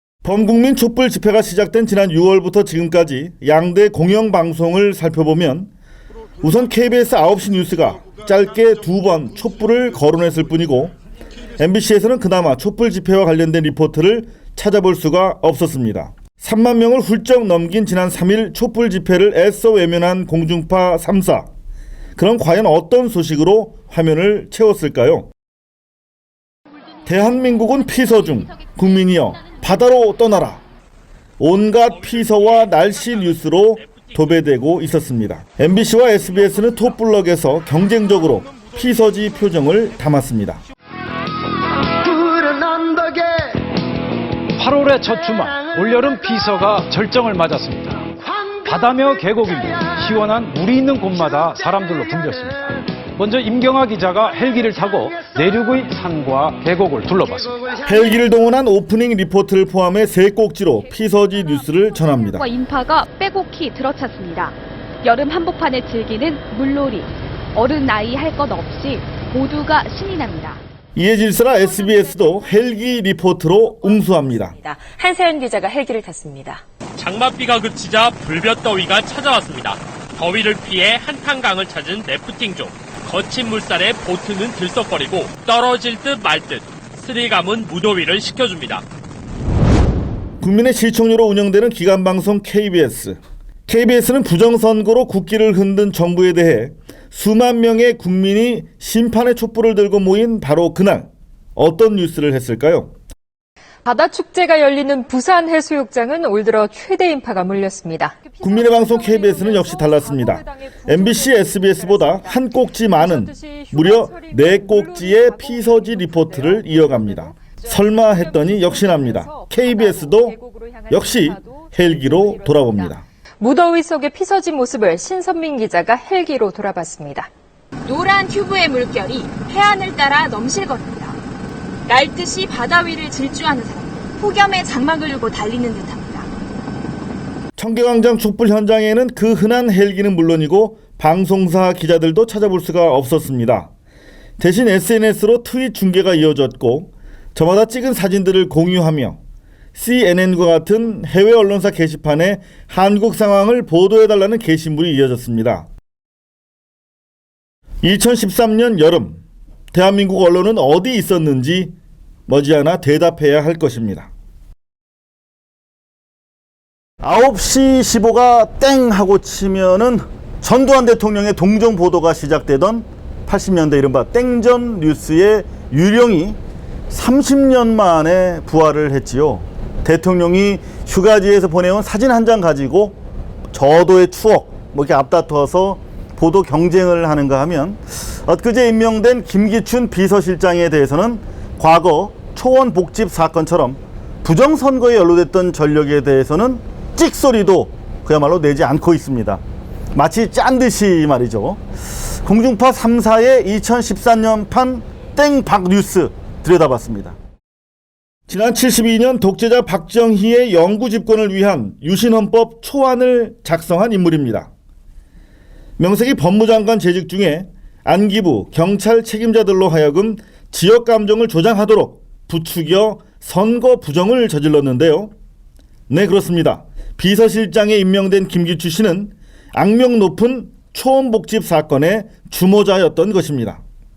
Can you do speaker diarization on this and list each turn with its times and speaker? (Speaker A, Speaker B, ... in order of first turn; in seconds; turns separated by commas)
Speaker A: 0.2-5.7, Speaker A: 6.4-10.9, Speaker A: 11.6-21.5, Speaker A: 22.2-25.3, Speaker A: 27.1-30.6, Speaker A: 31.4-40.6, Speaker B: 33.8-34.1, Speaker C: 44.6-57.8, Speaker A: 57.8-62.5, Speaker D: 62.3-70.6, Speaker A: 71.0-74.5, Speaker E: 73.8-76.6, Speaker B: 77.0-88.8, Speaker A: 90.4-102.9, Speaker E: 103.8-127.3, Speaker A: 108.4-120.4, Speaker A: 120.9-123.0, Speaker F: 127.8-131.2, Speaker F: 131.9-136.3, Speaker A: 137.6-143.7, Speaker A: 144.4-149.2, Speaker A: 149.8-155.7, Speaker A: 157.8-159.2, Speaker A: 159.7-161.7, Speaker A: 162.3-164.1, Speaker A: 167.0-176.4, Speaker A: 176.9-183.0, Speaker A: 183.5-199.4, Speaker A: 199.9-201.6, Speaker A: 202.2-207.2, Speaker A: 208.3-214.5, Speaker A: 215.8-225.1, Speaker A: 225.9-233.6